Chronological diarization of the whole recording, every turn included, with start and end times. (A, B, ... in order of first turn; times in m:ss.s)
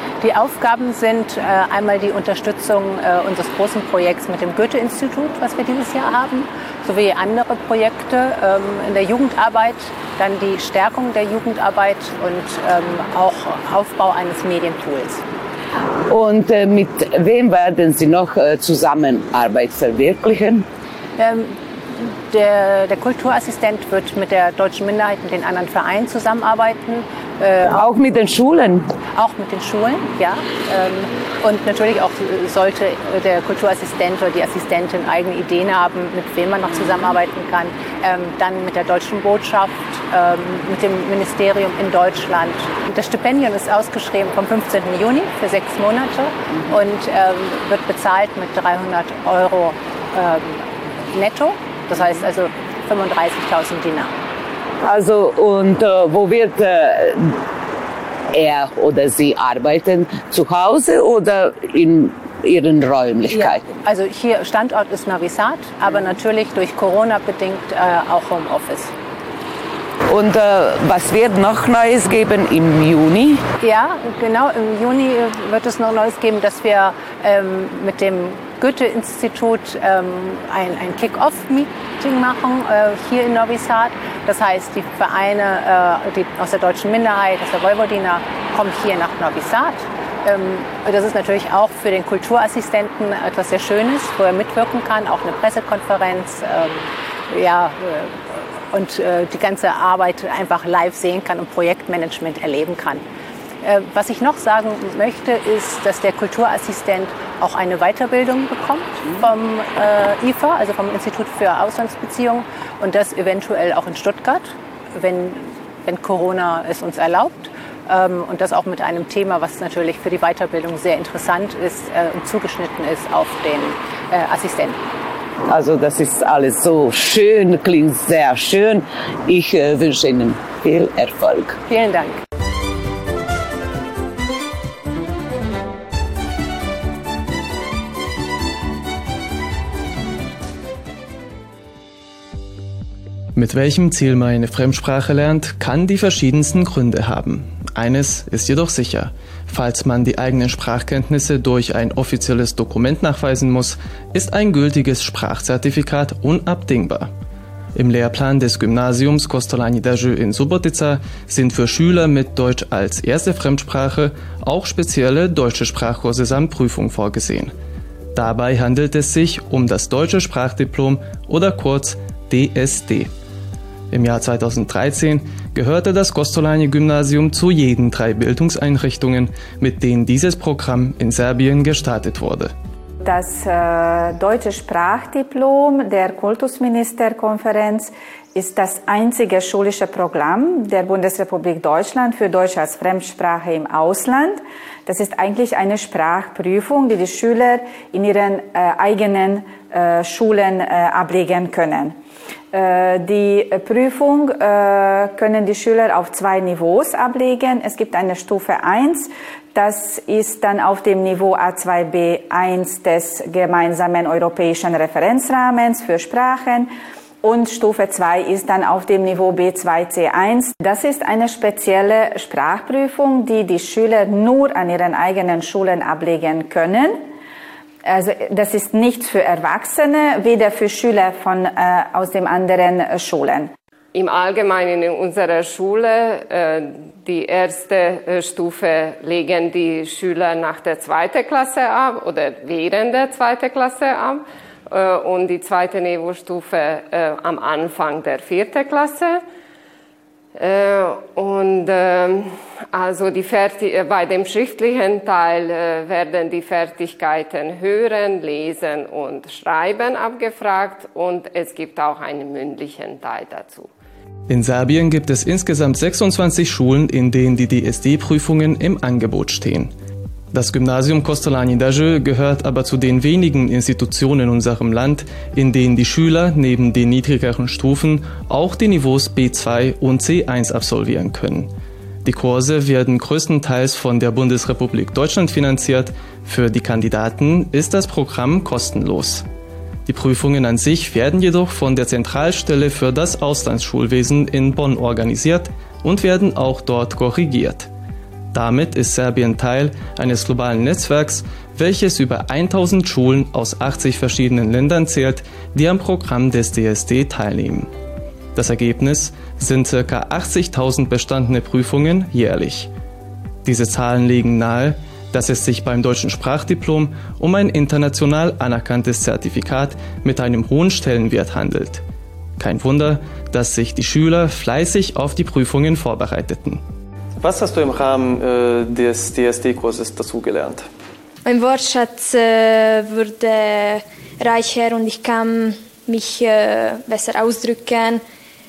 0:00.2-0:15.2 A
0:16.1-0:20.7 B
0:21.2-0:27.8 A
0:27.6-0:28.9 B
0:29.1-0:54.1 A
0:54.8-0:57.4 B
0:58.3-1:03.6 B
1:03.3-1:08.9 A
1:10.1-1:13.4 B
1:13.6-1:43.0 A
1:43.6-2:04.8 A
2:05.5-2:11.6 B
2:11.7-2:12.2 A
2:23.4-2:37.1 C
2:37.8-2:47.5 C
2:48.1-2:53.1 C
2:53.9-3:02.5 C
3:03.0-3:22.0 D
3:22.5-3:36.7 D
3:37.2-3:47.0 D
3:47.8-3:53.5 D
3:53.9-4:09.2 E
4:10.4-4:23.7 E
4:24.3-4:29.7 C
4:30.3-4:41.5 C
4:42.0-4:49.2 C
4:49.9-4:57.7 C
4:58.3-5:07.7 C
5:08.4-5:12.7 C
5:13.4-5:21.8 C
5:22.4-5:26.6 C
5:27.2-5:30.7 C
5:31.2-5:38.0 F